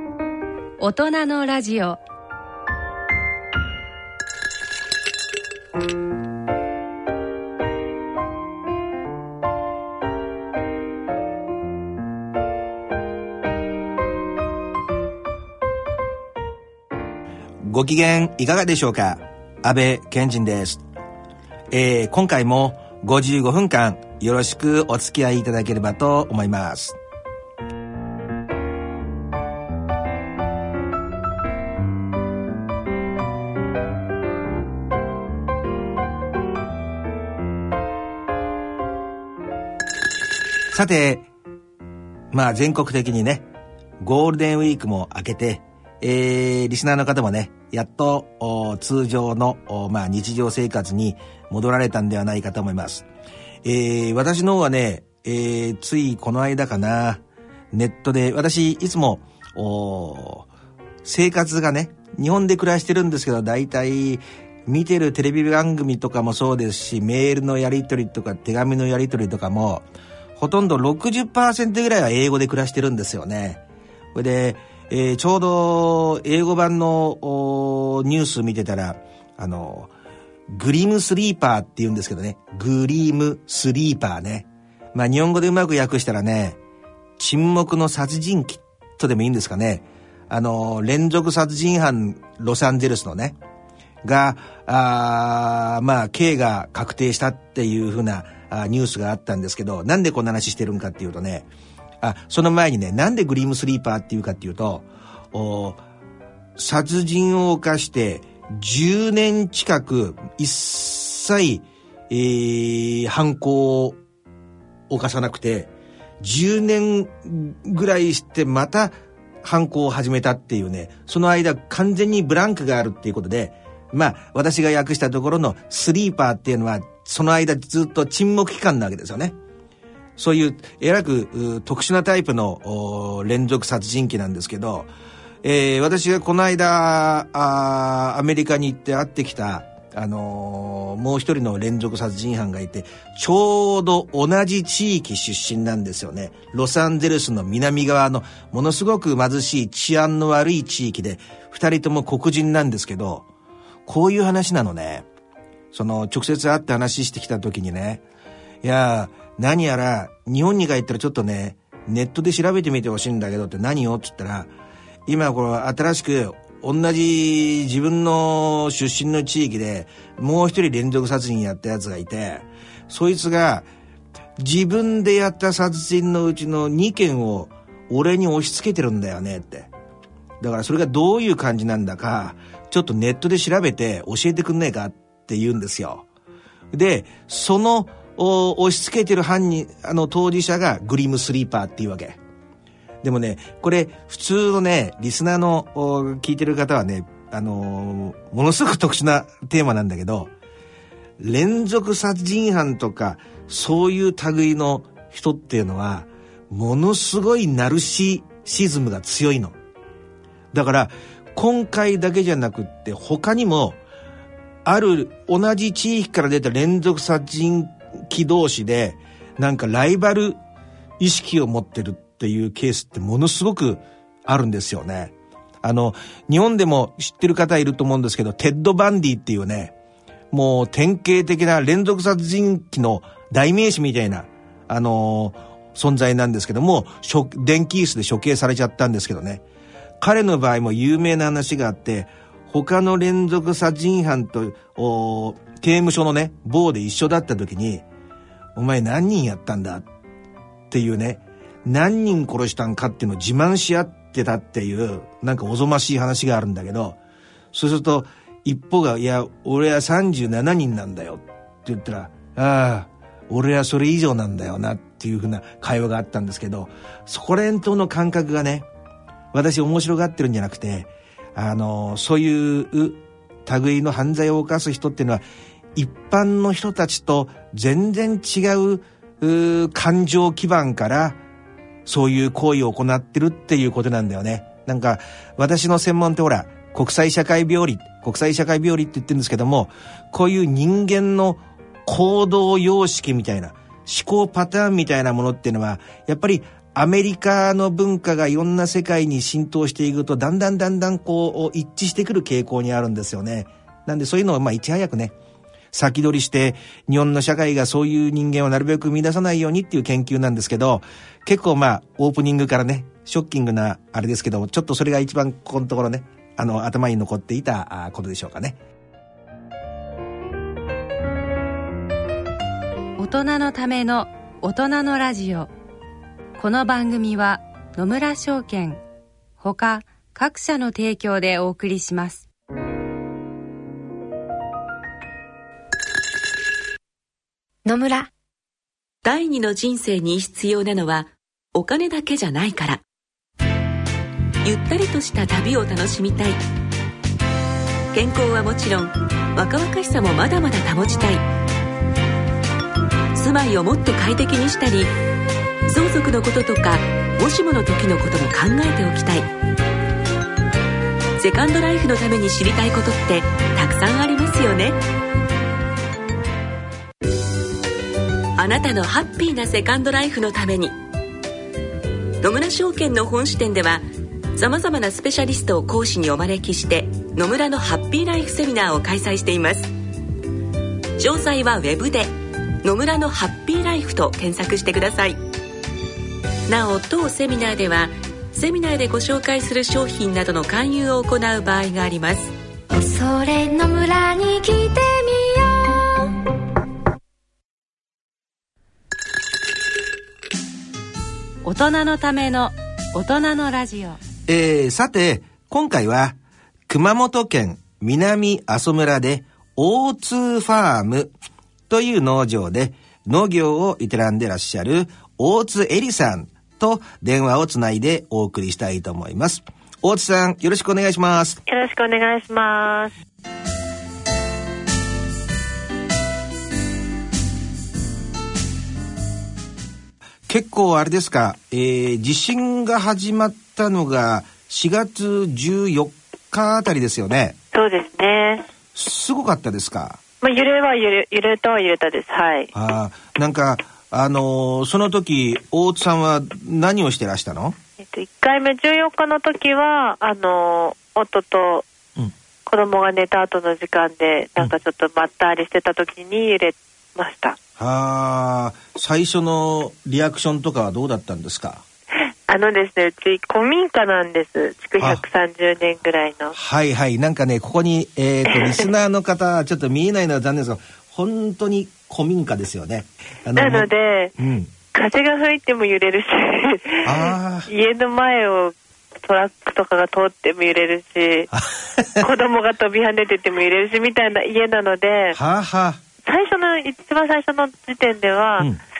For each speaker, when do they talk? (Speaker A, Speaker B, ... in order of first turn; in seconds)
Speaker A: 0.8-2.0, 323.0-325.5, 326.4-328.8, 329.4-332.2, 401.4-404.0
Speaker B: 17.6-20.8, 21.7-27.0, 40.7-41.3, 42.3-43.5, 44.0-53.1, 53.6-60.5, 61.0-69.8, 70.4-73.6, 74.1-79.9, 80.5-86.6, 87.2-93.3, 94.0-101.5, 102.0-105.8, 106.6-114.0, 114.9-129.3, 130.2-134.9, 135.4-153.2, 153.8-155.0, 155.7-158.0, 158.6-164.5, 165.1-173.7, 174.4-179.7, 180.4-186.0, 186.7-192.2, 193.0-200.3, 201.2-209.6, 210.5-213.8, 214.6-220.4, 221.0-229.7, 230.3-239.4, 240.0-247.8, 248.5-249.8, 250.7-257.0, 257.5-268.6, 269.3-275.2, 275.7-281.2, 281.9-305.1, 305.7-318.6, 404.3-406.2, 406.7-411.1, 411.7-421.4, 430.3-437.4, 438.7-440.0, 442.5-447.6, 457.6-461.6, 466.3-474.5, 476.8-477.5, 481.3-482.1, 485.1-485.8
Speaker C: 337.6-338.1, 392.7-396.2
Speaker D: 339.0-342.8, 344.4-346.4, 347.9-351.2, 353.1-354.9, 355.7-359.3, 361.2-364.8, 368.4-370.7, 372.2-379.7, 381.0-382.1, 382.6-385.2, 386.5-392.3
Speaker E: 421.4-422.9, 437.5-438.4, 440.2-442.5, 447.8-451.6, 452.4-457.4, 462.0-466.4, 468.3-468.7, 473.4-474.1, 474.7-481.3, 482.0-485.2, 486.0-488.5